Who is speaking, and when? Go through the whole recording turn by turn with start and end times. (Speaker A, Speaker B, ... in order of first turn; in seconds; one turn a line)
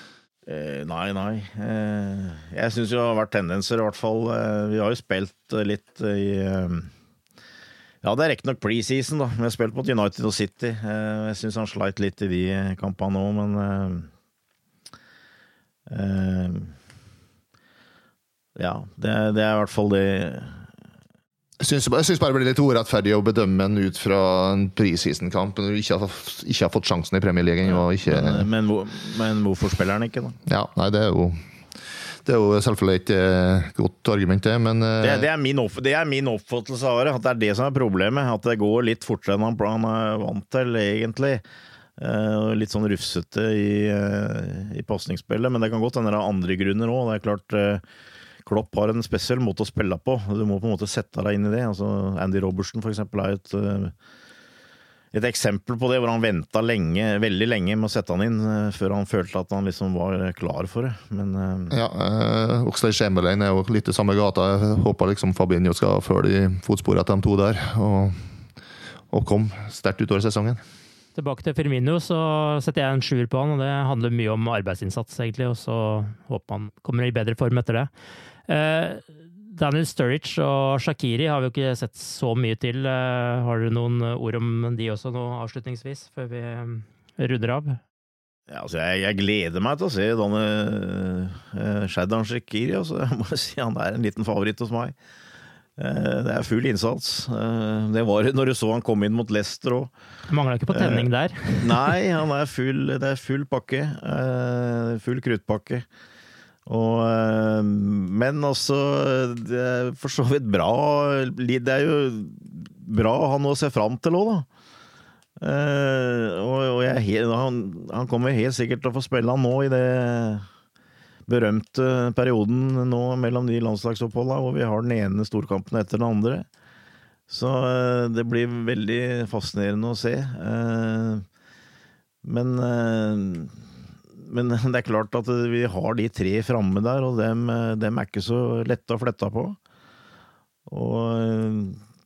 Speaker A: 0.5-6.9
Speaker A: 8.0-14.1
Speaker A: 15.9-16.8
Speaker A: 18.6-20.6
Speaker B: 21.6-28.5
Speaker A: 27.6-30.4
Speaker B: 30.4-31.4
Speaker B: 32.1-35.3
Speaker A: 35.0-41.4
Speaker A: 42.0-47.8
Speaker A: 48.4-53.9
Speaker A: 55.1-61.7
Speaker B: 61.7-68.3
Speaker B: 69.1-70.6
Speaker C: 71.1-77.9
Speaker C: 78.5-87.8
Speaker A: 88.5-94.9
Speaker A: 95.8-99.9
Speaker C: 100.3-101.8
Speaker A: 100.7-101.0
Speaker A: 101.6-105.8
Speaker A: 106.7-114.5
Speaker A: 115.4-120.5
Speaker A: 121.3-126.5
Speaker A: 127.3-131.2
Speaker A: 132.2-133.6
Speaker A: 134.2-139.6
Speaker A: 140.7-141.8